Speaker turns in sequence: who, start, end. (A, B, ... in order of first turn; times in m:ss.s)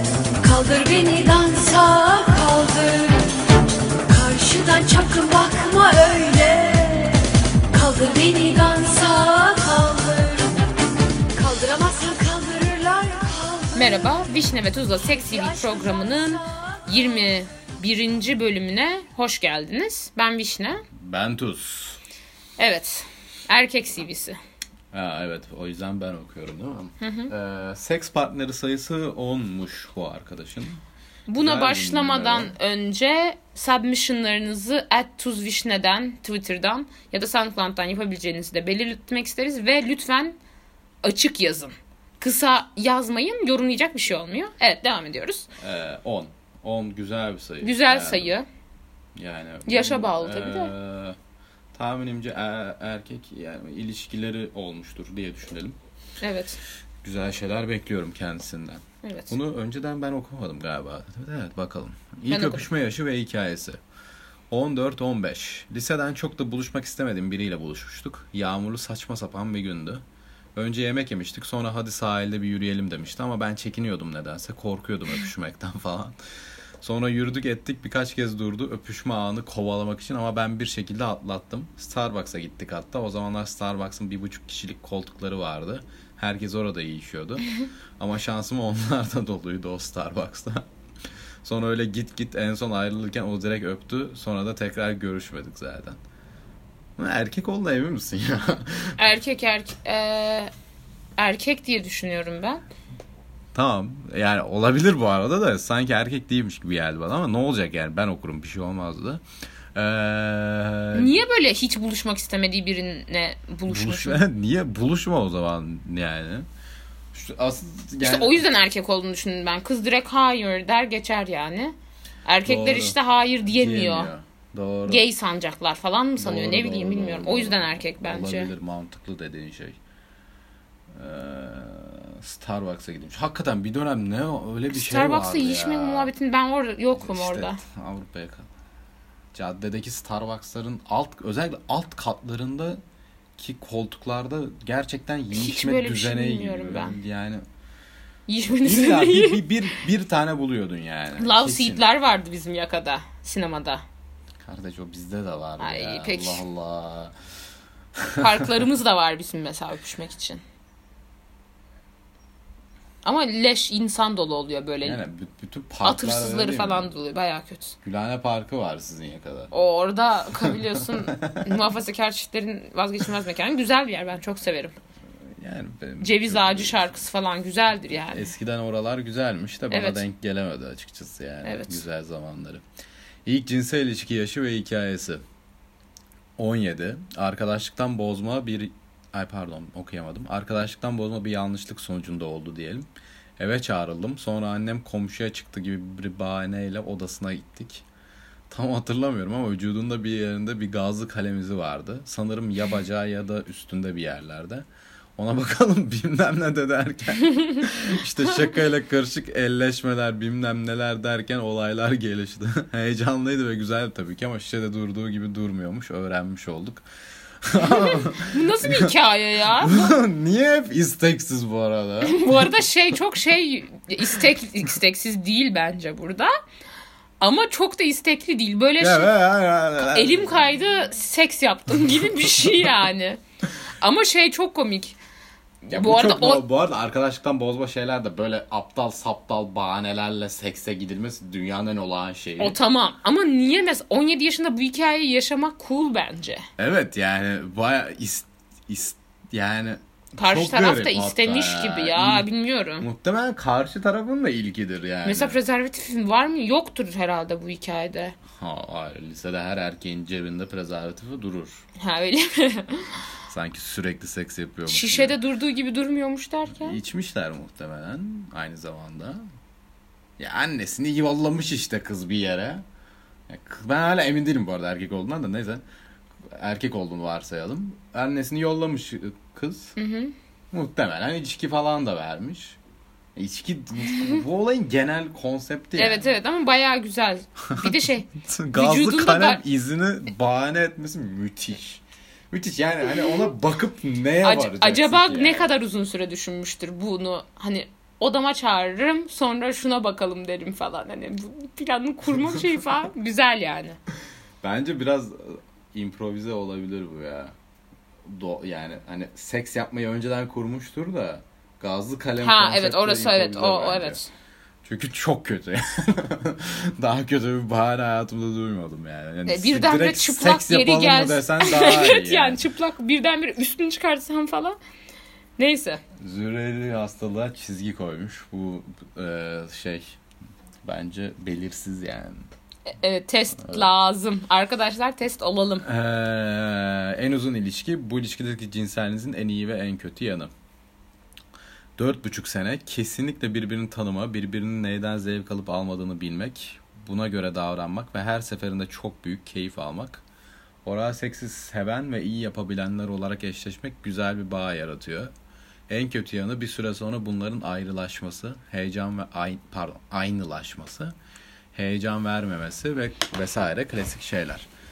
0:00.4-0:03.4 A
0:04.0-0:10.6 A
0:11.3-0:13.9 A
0:13.7-0:20.8 B
0:15.2-0:16.5 A
0:20.9-0:22.0 C
0:22.6-0:24.4 B
0:24.9-0:30.8 C
0:27.0-0:27.3 B
0:31.3-0:40.4 B
0:31.3-0:32.5 C
0:41.0-0:45.5 B
0:45.6-0:48.4 C
0:47.6-0:48.4 B
0:49.2-0:51.2 C
0:49.6-0:50.7 B
0:51.7-0:55.8 C
0:56.2-0:56.6 B
0:57.0-1:03.8 C
0:59.0-0:59.3 B
1:02.3-1:02.7 B
1:04.5-1:10.0 C
1:10.5-1:16.2 C
1:16.8-1:30.6 C
1:31.4-1:36.0 C
1:37.0-1:39.0 C
1:39.0-1:40.5 B
1:41.2-1:42.6 B
1:43.5-1:49.2 C
1:49.7-1:51.2 C
1:50.9-1:54.2 B
1:53.7-1:56.4 C
1:57.1-1:58.4 C
1:58.0-2:04.1 B
2:02.4-2:05.0 C
2:04.9-2:08.5 B
2:06.2-2:09.8 C
2:10.9-2:16.1 C
2:14.7-2:17.6 B
2:17.0-2:18.5 C
2:19.3-2:22.8 C
2:23.4-2:27.4 C
2:25.3-2:27.0 B
2:28.3-2:29.4 B
2:28.5-2:31.8 C
2:31.2-2:33.8 B
2:34.4-2:37.1 C
2:35.6-2:36.4 B
2:38.2-2:40.4 B
2:43.0-2:45.0 B
2:44.8-2:47.0 C
2:45.8-2:47.8 B
2:47.8-2:49.5 C
2:49.5-2:54.7 B
2:50.4-2:51.6 C
2:55.4-2:57.0 C
2:56.0-2:58.3 B
2:57.9-3:02.6 C
2:59.7-3:00.0 B
3:01.4-3:01.8 B
3:03.2-3:05.2 C
3:06.4-3:12.9 C
3:13.4-3:17.8 C
3:18.5-3:24.6 C
3:25.2-3:36.8 C
3:37.4-3:38.9 C
3:37.6-3:40.0 B
3:39.4-3:42.5 C
3:42.0-3:46.3 B
3:47.2-3:49.1 B
3:48.8-3:50.5 C
3:49.8-3:53.2 B
3:51.9-3:52.6 C
3:53.8-3:55.0 B
3:55.7-3:56.4 B
3:55.7-4:02.6 C
4:02.4-4:06.4 B
4:06.6-4:12.3 C
4:10.2-4:12.8 B
4:12.8-4:15.4 C
4:15.0-4:18.2 B
4:18.4-4:21.6 C
4:21.8-4:23.0 B
4:23.3-4:25.2 C
4:24.7-4:26.8 B
4:26.5-4:29.2 C
4:30.2-4:32.6 C
4:33.3-4:35.6 C
4:36.3-4:39.7 C
4:39.8-4:40.1 B
4:40.5-4:42.6 C
4:43.2-4:46.1 C
4:43.9-4:44.1 B
4:45.8-4:49.4 B
4:47.5-4:55.6 C
4:54.2-5:03.8 B
5:04.4-5:07.3 C
5:08.0-5:14.0 C
5:12.2-5:14.1 B
5:14.6-5:22.4 C
5:19.2-5:24.6 B
5:25.4-5:25.8 B
5:26.0-5:30.0 C
5:30.6-5:32.2 C
5:32.7-5:35.6 B
5:35.6-5:40.3 C
5:41.8-5:50.0 C
5:50.6-5:55.1 C
5:55.7-6:00.9 C
6:01.5-6:04.5 C